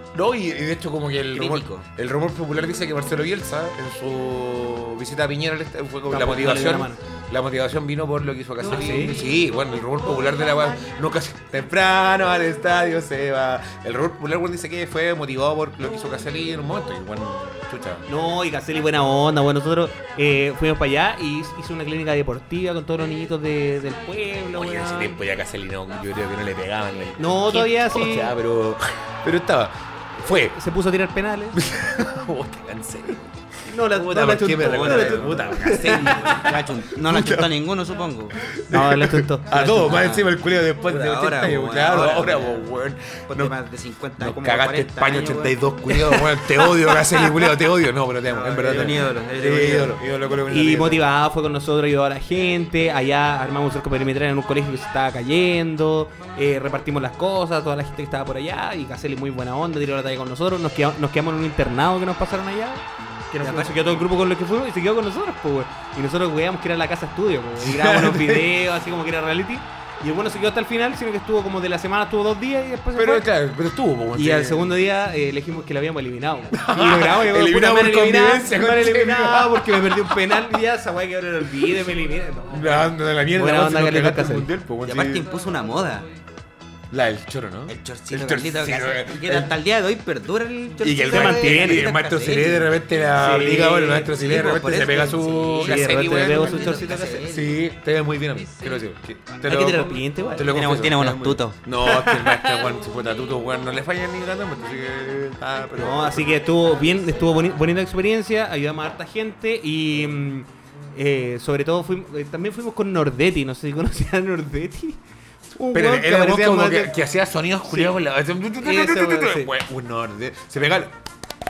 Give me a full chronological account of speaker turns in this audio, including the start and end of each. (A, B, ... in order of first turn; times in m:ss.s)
0:00.1-0:18.0 A
0:01.3-0:01.8 B
0:06.1-0:07.0 C
0:08.6-0:09.2 C
0:18.1-0:25.2 C
0:24.5-0:30.6 A
0:27.2-0:28.3 C
0:30.2-0:31.6 C
0:31.5-0:33.3 A
0:33.7-0:36.5 C
0:33.9-0:37.5 A
0:34.2-0:38.4 B
0:38.4-0:43.5 A
0:38.7-0:40.0 C
0:39.5-0:40.3 B
0:40.8-0:42.7 B
0:43.3-0:45.5 B
0:44.2-0:51.0 A
0:45.9-0:47.2 C
0:48.2-0:50.0 B
0:50.5-1:13.3 C
1:03.4-1:03.8 B
1:07.6-1:08.6 A
1:12.9-1:14.8 A
1:14.1-1:24.5 C
1:16.5-1:20.5 A
1:22.5-1:25.2 A
1:24.8-1:26.1 B
1:26.9-1:29.5 A
1:27.7-1:32.7 B
1:30.8-1:46.4 A
1:31.1-1:31.9 C
1:33.2-1:34.1 C
1:34.1-1:37.6 B
1:35.6-1:37.2 C
1:39.4-1:42.6 C
1:40.4-1:41.6 B
1:45.8-1:55.0 C
1:55.6-1:56.9 C
1:55.7-2:00.9 A
1:57.7-1:57.9 C
1:58.6-1:59.5 C